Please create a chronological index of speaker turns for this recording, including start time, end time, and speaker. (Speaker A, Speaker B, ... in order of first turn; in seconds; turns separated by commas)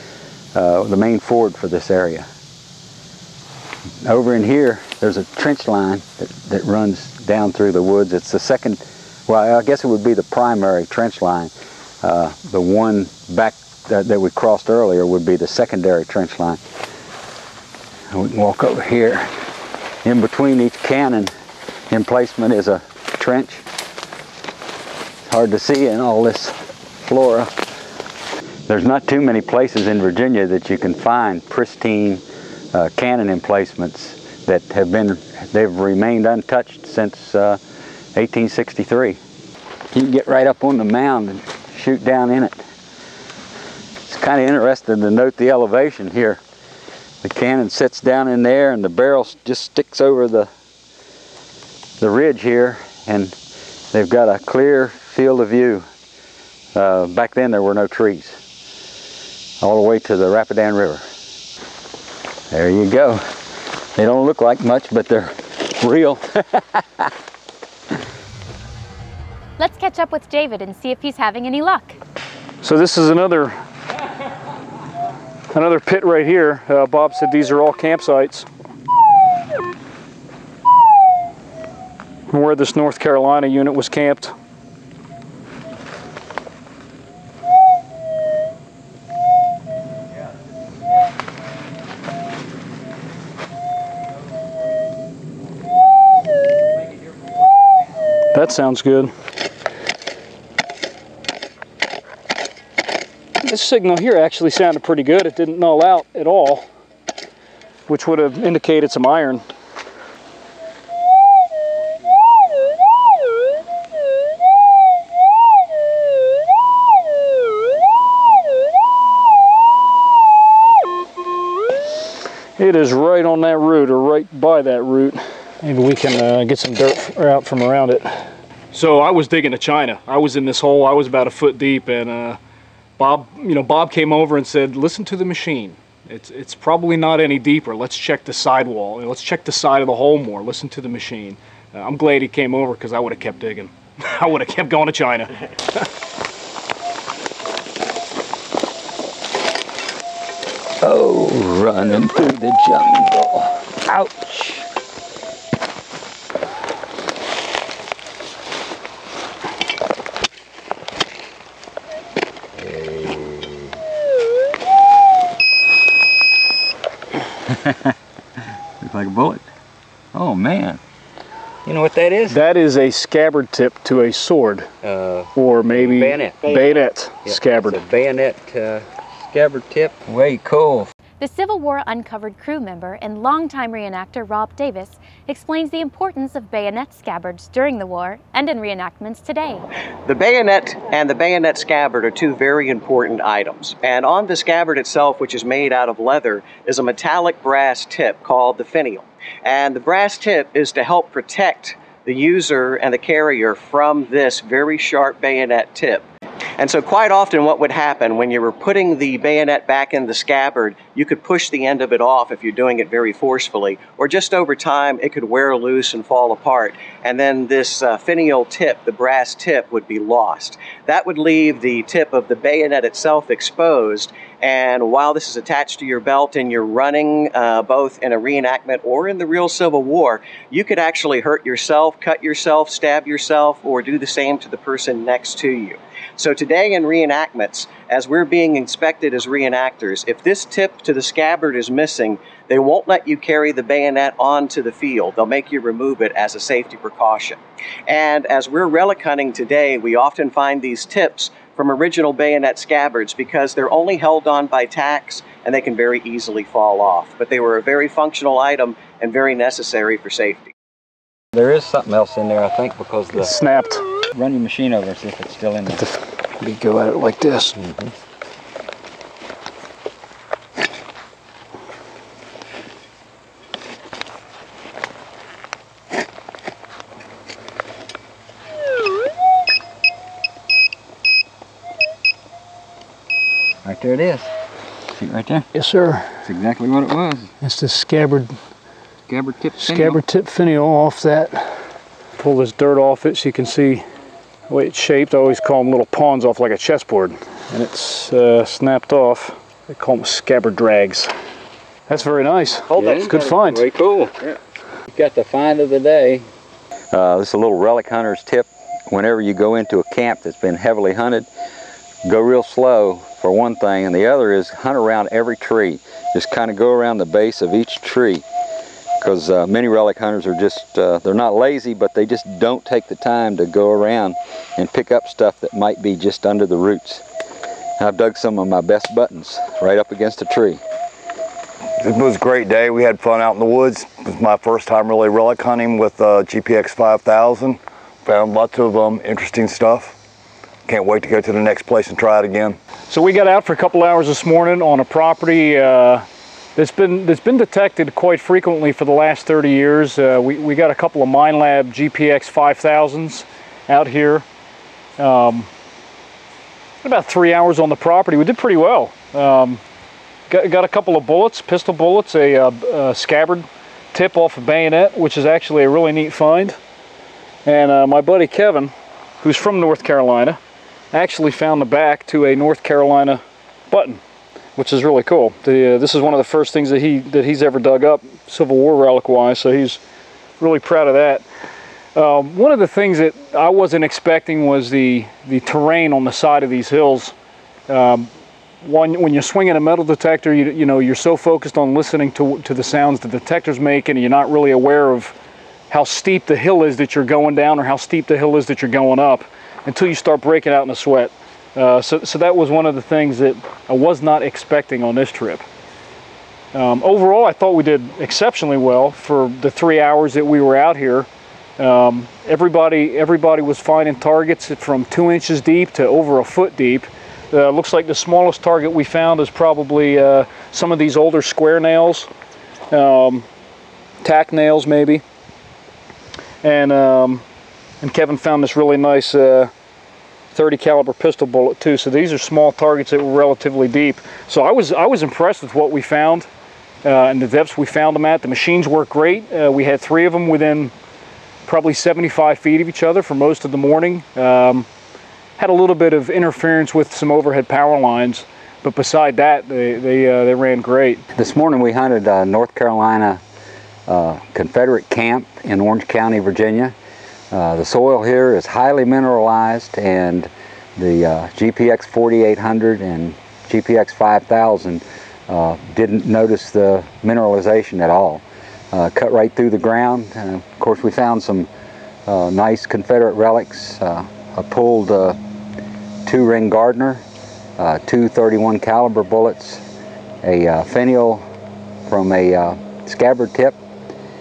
Speaker A: 0.5-2.3, Speaker A: 4.0-16.6, Speaker A: 18.1-19.3, Speaker A: 20.0-21.3, Speaker A: 21.9-23.6, Speaker A: 25.2-27.5, Speaker A: 28.7-37.6, Speaker A: 38.1-39.2, Speaker A: 39.9-42.6, Speaker A: 44.1-46.4, Speaker A: 47.2-50.5, Speaker A: 52.0-53.4, Speaker A: 53.9-55.9, Speaker A: 56.7-58.4, Speaker A: 59.6-61.0, Speaker A: 62.5-63.2, Speaker A: 64.0-67.1, Speaker B: 69.6-72.0, Speaker C: 72.6-73.5, Speaker C: 75.5-78.5, Speaker C: 82.3-84.3, Speaker C: 98.3-99.1, Speaker C: 103.4-106.6, Speaker C: 107.9-109.4, Speaker C: 122.6-132.4, Speaker C: 133.0-145.9, Speaker A: 150.8-154.7, Speaker A: 162.6-163.7, Speaker A: 167.5-167.9, Speaker A: 168.8-169.4, Speaker A: 170.1-170.8, Speaker A: 171.6-172.4, Speaker C: 172.3-174.7, Speaker A: 174.8-176.6, Speaker C: 175.3-177.8, Speaker A: 177.2-180.9, Speaker B: 181.2-189.7, Speaker D: 190.1-206.1, Speaker D: 206.6-260.5, Speaker A: 261.3-263.3, Speaker C: 263.1-263.8, Speaker A: 264.1-265.8, Speaker C: 265.8-267.6, Speaker A: 267.6-267.9, Speaker A: 283.6-284.3, Speaker A: 284.9-285.5, Speaker C: 285.5-286.2, Speaker A: 286.2-287.3, Speaker C: 287.4-288.3, Speaker A: 289.1-290.0, Speaker C: 289.6-291.6, Speaker C: 292.2-293.9, Speaker C: 294.5-301.1, Speaker C: 301.9-303.6, Speaker A: 302.7-304.3, Speaker A: 304.9-306.3, Speaker A: 306.9-311.3, Speaker A: 312.0-318.2, Speaker A: 319.0-327.0, Speaker A: 327.8-330.6, Speaker E: 331.8-339.9, Speaker E: 340.7-342.6, Speaker C: 342.9-354.2, Speaker C: 355.0-355.5, Speaker C: 356.8-359.6, Speaker C: 360.3-366.6, Speaker C: 367.4-370.4, Speaker C: 370.9-374.0, Speaker C: 374.6-379.8, Speaker C: 380.4-381.2, Speaker C: 381.9-387.1, Speaker C: 387.7-388.1, Speaker C: 388.6-395.1, Speaker C: 395.7-405.4, Speaker C: 406.5-422.1, Speaker C: 422.7-423.2, Speaker C: 424.0-425.0, Speaker C: 426.4-427.2, Speaker C: 427.8-429.5, Speaker C: 430.3-436.3, Speaker C: 436.8-440.7, Speaker C: 441.4-444.6, Speaker C: 445.4-451.0, Speaker A: 451.1-453.2, Speaker A: 453.9-456.7, Speaker A: 457.3-471.5, Speaker A: 472.1-475.2, Speaker A: 476.0-477.0, Speaker A: 477.6-479.6, Speaker A: 480.2-481.2, Speaker A: 481.9-483.6